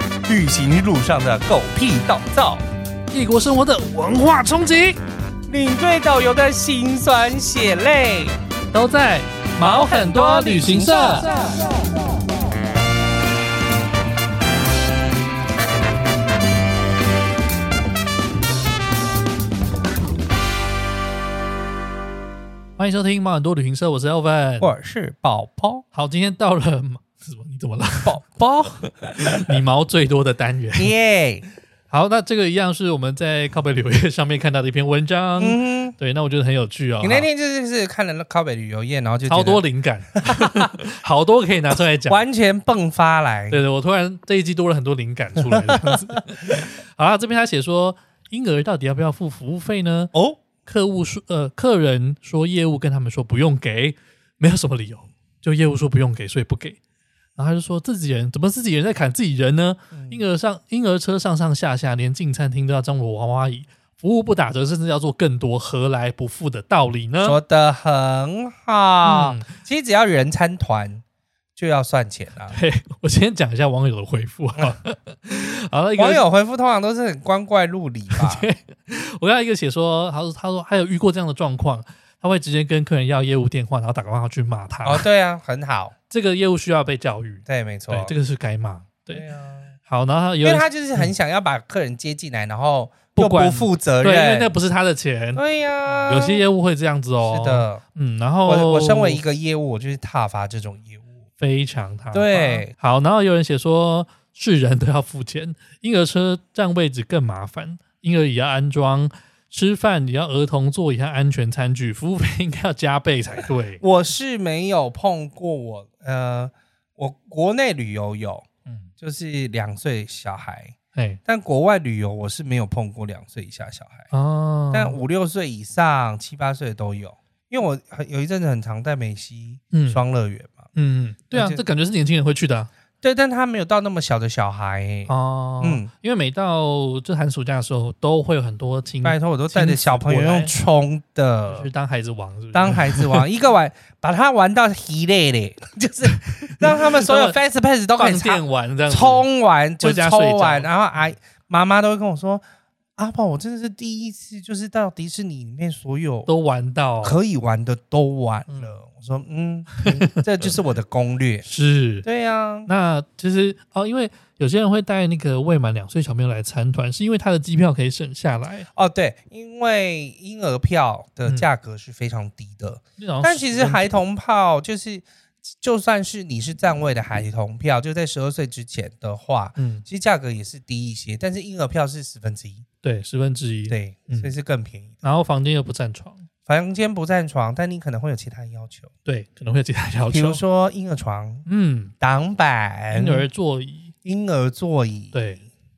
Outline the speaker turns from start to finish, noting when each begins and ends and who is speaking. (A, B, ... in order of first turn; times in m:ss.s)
0:00.3-0:02.6 A
0:03.1-0:05.0 B
0:05.5-0:08.4 A
0:08.7-0:11.3 B
0:09.6-0:11.7 A
0:22.8-0:24.7 B
0:24.6-0:25.8 A
0:25.9-0:28.2 B
0:28.0-0:29.6 A
0:29.2-0:30.9 B
0:30.8-0:31.5 A
0:31.9-0:37.3 B
0:35.4-0:36.0 A
0:37.0-0:39.6 A
0:39.3-0:42.2 B
0:42.0-0:43.6 A
0:43.5-0:50.1 B
0:45.4-0:46.2 A
0:50.1-0:50.4 A
0:50.6-0:56.8 B
0:57.4-1:07.4 B
0:59.9-1:00.2 A
1:07.2-1:11.0 A
1:09.0-1:09.5 B
1:11.6-1:12.6 A
1:12.5-1:16.2 B
1:16.0-1:18.5 A
1:18.1-1:25.0 B
1:24.8-1:25.9 A
1:26.1-1:29.2 B
1:27.4-1:28.1 A
1:29.1-1:29.8 A
1:29.8-1:31.1 B
1:30.4-1:34.5 A
1:33.1-1:39.2 B
1:35.3-1:36.4 A
1:37.2-1:37.8 A
1:38.4-1:41.1 A
1:41.4-1:53.8 B
1:42.1-1:42.7 A
1:53.8-1:58.5 A
1:59.0-2:04.1 A
2:00.9-2:01.2 B
2:04.1-2:05.0 B
2:04.7-2:10.7 A
2:09.7-2:10.0 B
2:10.8-2:12.7 B
2:11.3-2:11.7 A
2:13.0-2:15.9 A
2:15.1-2:20.5 B
2:19.0-2:21.7 A
2:21.5-2:23.2 B
2:22.5-2:32.4 A
2:26.6-2:27.4 B
2:28.0-2:29.2 B
2:29.8-2:31.1 B
2:33.0-2:36.3 A
2:36.2-2:37.2 B
2:37.0-2:41.5 A
2:38.5-2:38.7 B
2:39.7-2:40.2 B
2:41.4-2:42.0 B
2:42.0-2:42.7 A
2:42.7-2:48.7 B
2:48.8-3:02.7 A
2:53.0-2:54.0 B
2:59.6-2:59.8 B
3:02.8-3:04.3 B
3:03.7-3:05.0 A
3:05.0-3:06.2 B
3:06.5-3:08.9 A
3:09.0-3:10.4 B
3:10.1-3:11.5 A
3:11.5-3:11.9 B
3:12.0-3:13.3 A
3:12.9-3:13.9 B
3:14.0-3:15.3 A
3:15.1-3:15.4 B